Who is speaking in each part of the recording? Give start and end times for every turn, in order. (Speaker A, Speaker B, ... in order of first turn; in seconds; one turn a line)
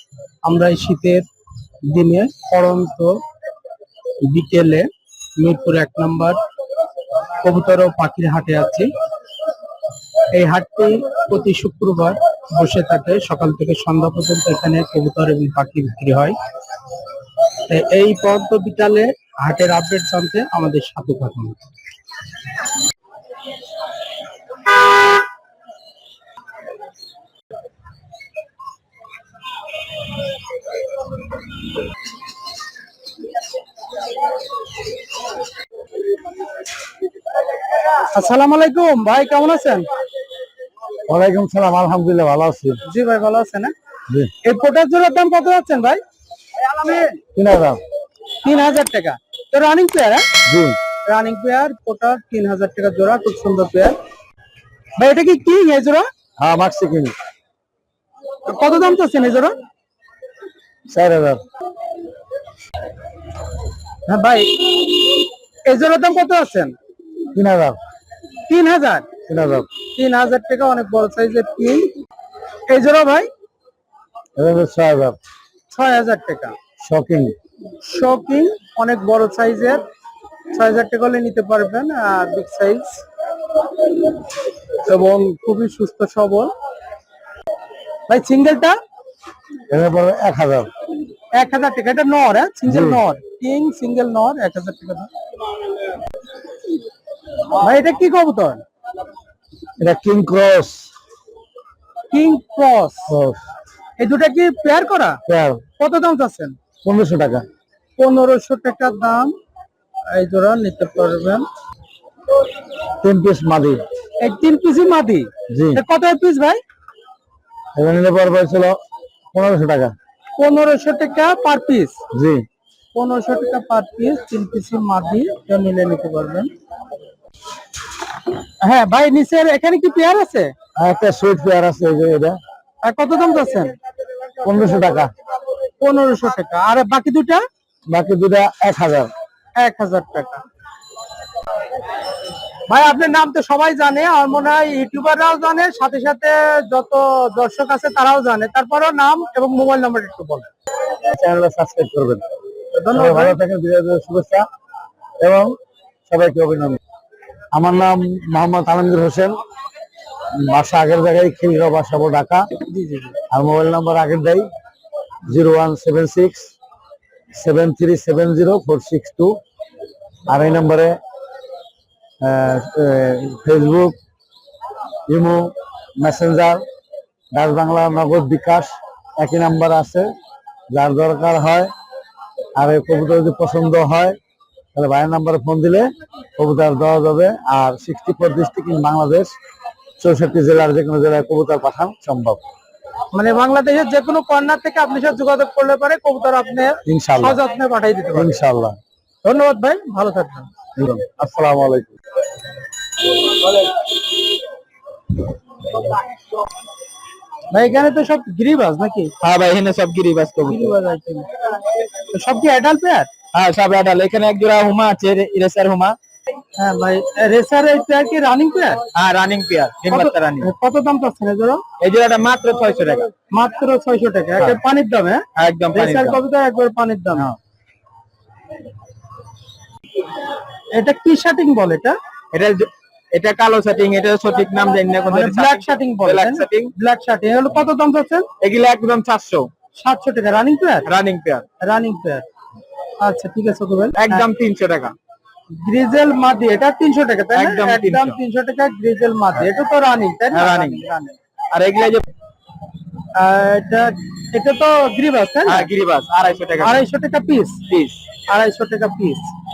Speaker A: 0.4-1.2
Speaker A: 1.8-3.2
Speaker A: 4.2-6.4
Speaker A: 7.4-8.9
Speaker A: 10.3-16.4
Speaker A: 17.7-21.6
Speaker A: 38.0-39.9
Speaker B: 41.1-42.8
Speaker A: 42.9-43.7
Speaker A: 44.4-46.0
Speaker B: 46.6-47.8
Speaker A: 48.4-50.3
Speaker B: 50.5-50.8
Speaker A: 51.0-54.0
Speaker A: 55.0-56.1
Speaker B: 56.4-57.1
Speaker A: 58.5-59.5
Speaker B: 60.9-61.4
Speaker A: 64.1-64.9
Speaker A: 65.6-66.7
Speaker B: 67.3-67.8
Speaker A: 68.5-69.1
Speaker B: 69.3-69.7
Speaker A: 69.9-71.9
Speaker A: 72.7-73.3
Speaker B: 74.4-75.2
Speaker A: 75.7-76.5
Speaker B: 76.8-77.3
Speaker A: 77.8-79.8
Speaker A: 80.5-83.0
Speaker A: 84.8-86.5
Speaker A: 88.1-88.8
Speaker B: 89.7-90.7
Speaker A: 91.3-95.1
Speaker B: 92.7-93.0
Speaker A: 97.6-98.6
Speaker B: 99.8-100.9
Speaker A: 102.1-103.1
Speaker B: 103.1-103.4
Speaker A: 104.0-105.2
Speaker B: 105.3-105.6
Speaker A: 105.8-106.5
Speaker B: 106.8-107.5
Speaker A: 108.0-109.3
Speaker A: 110.1-111.5
Speaker B: 113.0-113.8
Speaker A: 114.2-116.6
Speaker B: 115.5-115.8
Speaker B: 117.8-118.8
Speaker B: 119.3-119.9
Speaker A: 120.3-122.0
Speaker B: 122.1-122.4
Speaker A: 122.9-126.5
Speaker A: 128.6-130.5
Speaker B: 130.8-132.4
Speaker A: 132.8-133.8
Speaker B: 134.4-135.1
Speaker A: 135.8-137.4
Speaker B: 137.9-139.1
Speaker A: 139.6-140.4
Speaker A: 142.7-150.5
Speaker B: 151.0-152.2
Speaker A: 152.7-153.4
Speaker B: 152.9-154.4
Speaker B: 155.2-155.6
Speaker B: 156.1-156.8
Speaker B: 157.5-159.4
Speaker B: 160.3-162.5
Speaker A: 162.7-163.2
Speaker B: 163.3-164.5
Speaker B: 165.2-166.5
Speaker B: 167.3-169.4
Speaker B: 170.3-171.0
Speaker B: 172.2-174.0
Speaker B: 175.1-176.6
Speaker B: 177.3-180.1
Speaker B: 180.7-181.7
Speaker B: 182.5-184.2
Speaker B: 184.7-189.3
Speaker B: 190.0-192.4
Speaker A: 193.1-198.3
Speaker B: 196.8-197.4
Speaker B: 198.1-198.8
Speaker A: 199.2-200.5
Speaker B: 200.8-201.9
Speaker A: 207.5-209.1
Speaker C: 209.2-210.7
Speaker A: 210.4-211.3
Speaker A: 212.1-213.1
Speaker C: 213.3-216.0
Speaker A: 216.6-218.8
Speaker C: 218.9-220.5
Speaker A: 219.9-221.6
Speaker C: 221.8-223.1
Speaker A: 223.3-227.3
Speaker C: 225.3-226.2
Speaker A: 230.7-231.9
Speaker C: 232.3-236.7
Speaker A: 235.1-238.3
Speaker C: 238.4-239.5
Speaker A: 239.8-240.9
Speaker C: 240.8-241.4
Speaker A: 241.6-242.2
Speaker A: 243.0-244.3
Speaker C: 243.9-244.9
Speaker A: 245.5-251.2
Speaker C: 247.3-248.2
Speaker C: 250.3-250.8
Speaker C: 251.5-252.1
Speaker A: 253.1-255.7
Speaker C: 255.4-256.8
Speaker A: 256.6-257.6
Speaker C: 257.7-258.0
Speaker A: 258.3-259.3